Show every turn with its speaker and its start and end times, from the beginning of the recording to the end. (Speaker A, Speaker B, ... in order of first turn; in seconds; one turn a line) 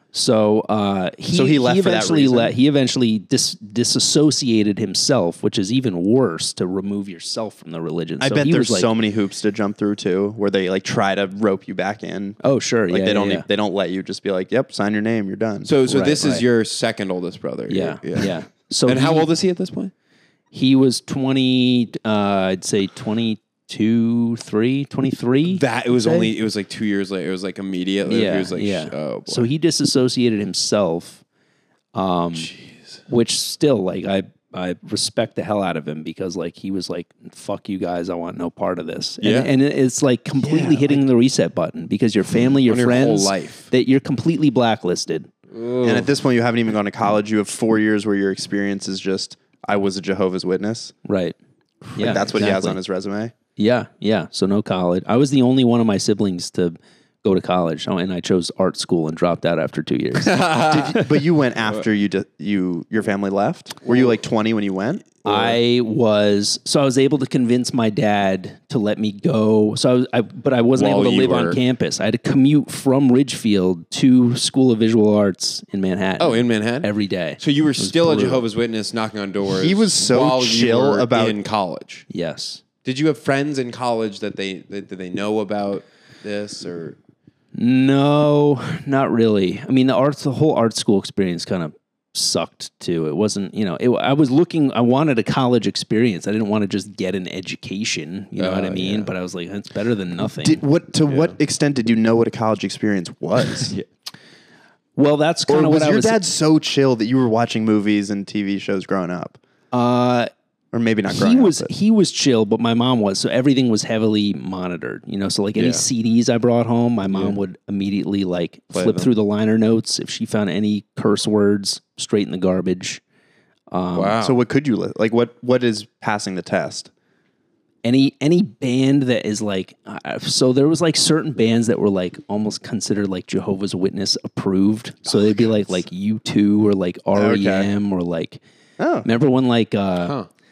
Speaker A: 0.1-8.9
Speaker B: 1.3-2.5
Speaker B: 8.2-15.7
Speaker A: 12.4-13.5
Speaker C: 15.7-18.3
Speaker A: 15.9-16.4
Speaker A: 17.7-19.3
Speaker C: 18.9-19.9
Speaker A: 20.5-26.3
Speaker C: 25.5-29.5
Speaker A: 28.1-31.2
Speaker A: 31.9-32.5
Speaker C: 32.4-33.0
Speaker A: 33.1-45.3
Speaker C: 39.2-39.5
Speaker B: 40.4-41.0
Speaker C: 42.7-43.7
Speaker C: 45.5-46.1
Speaker B: 45.8-50.9
Speaker A: 51.0-51.4
Speaker C: 51.9-52.3
Speaker A: 52.0-52.8
Speaker B: 52.0-53.3
Speaker A: 53.6-60.6
Speaker C: 60.2-61.1
Speaker B: 60.7-65.2
Speaker A: 65.2-78.4
Speaker C: 70.8-71.6
Speaker C: 76.2-82.1
Speaker B: 79.5-81.4
Speaker A: 82.1-82.6
Speaker C: 82.8-87.0
Speaker A: 87.5-100.6
Speaker C: 98.4-99.1
Speaker B: 100.4-103.7
Speaker C: 101.1-101.4
Speaker A: 105.0-106.2
Speaker B: 105.5-109.4
Speaker A: 109.7-110.3
Speaker B: 110.7-111.7
Speaker A: 111.1-123.0
Speaker C: 115.6-115.8
Speaker C: 117.1-117.4
Speaker C: 118.7-119.1
Speaker A: 123.7-124.2
Speaker C: 123.9-124.4
Speaker B: 124.2-126.9
Speaker A: 127.8-138.4
Speaker B: 135.1-135.6
Speaker B: 137.2-137.7
Speaker B: 138.8-139.1
Speaker A: 139.0-140.2
Speaker C: 140.0-140.3